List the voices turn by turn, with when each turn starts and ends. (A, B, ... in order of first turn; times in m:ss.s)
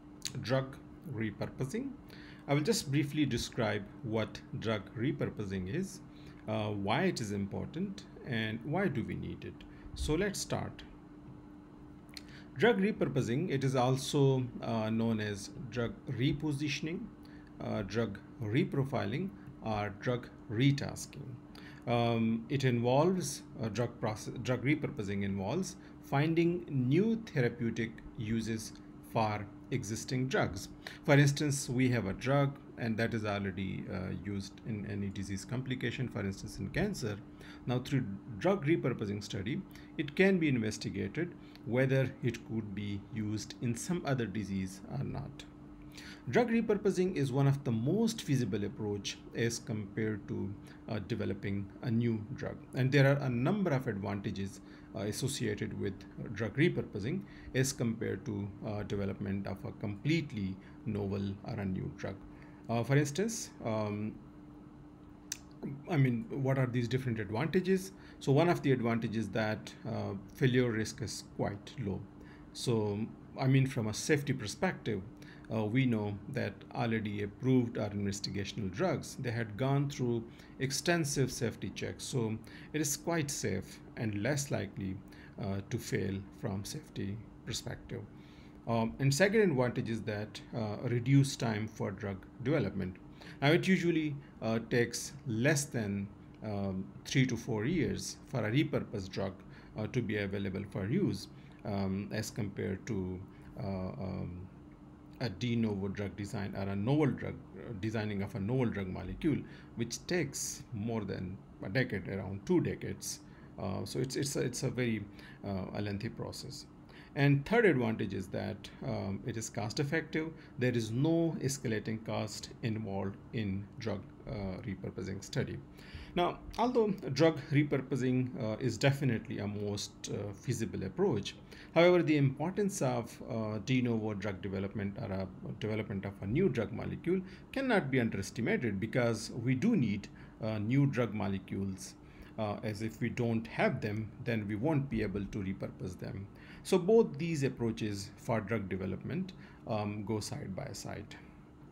0:00.4-0:10.9 A
0:12.6-0:45.5 A
0:46.3-1:04.2 A
1:05.6-1:28.1 A
1:28.6-1:44.5 A
1:45.2-2:05.6 A
2:06.1-2:31.2 A